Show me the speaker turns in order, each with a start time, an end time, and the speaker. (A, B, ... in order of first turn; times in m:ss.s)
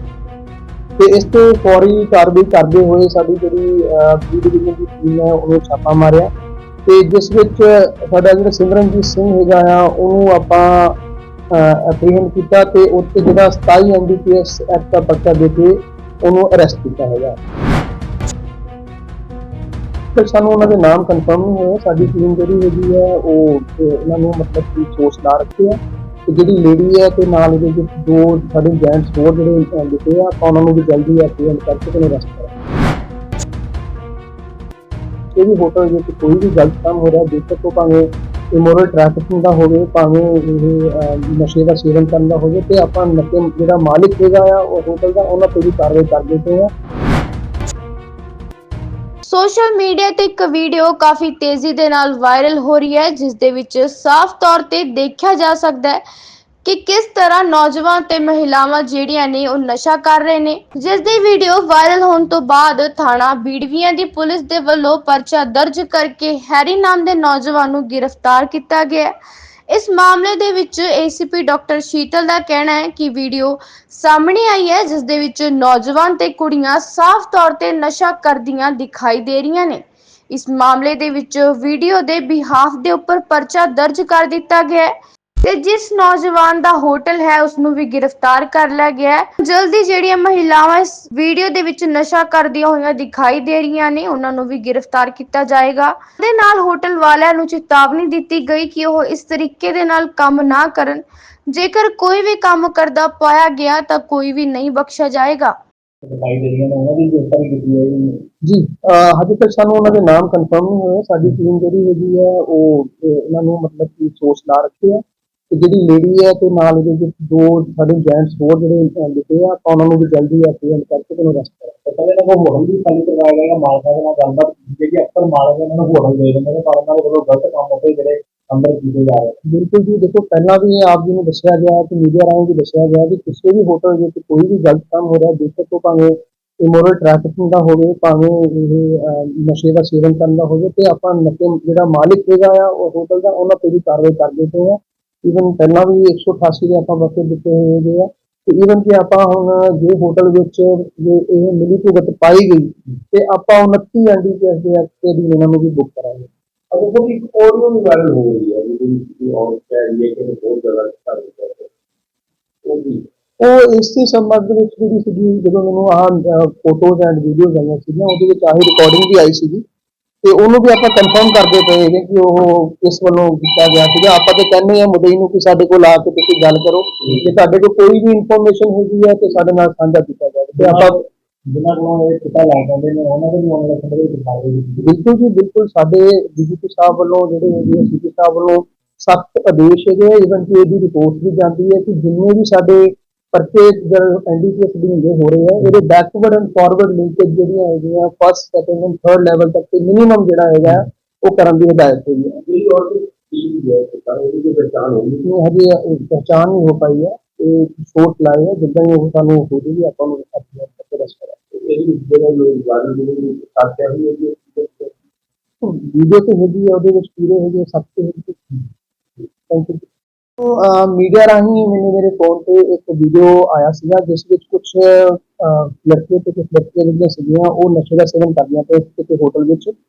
0:01.0-0:06.3 A
0:06.8-0:11.0 A
0:11.5-0:17.4 A
0:20.1-0:32.5 A
0:35.3-0:46.7 A
0:49.2-0:56.0 B
0:56.6-1:09.1 B
1:09.7-1:24.9 B
1:25.4-1:45.5 B
1:46.0-1:48.2 C
1:48.4-2:01.8 A
2:01.8-2:09.4 C
2:09.4-2:36.3 A
2:36.7-2:41.7 C
2:42.6-2:43.0 C
2:43.4-2:49.6 A
2:50.2-3:01.0 A
3:00.6-3:05.0 C
3:04.8-3:22.4 A
3:22.4-3:25.2 C
3:25.2-3:31.4 A
3:31.5-3:35.0 C
3:35.6-3:38.6 A
3:39.5-3:39.8 A
3:40.4-3:49.7 A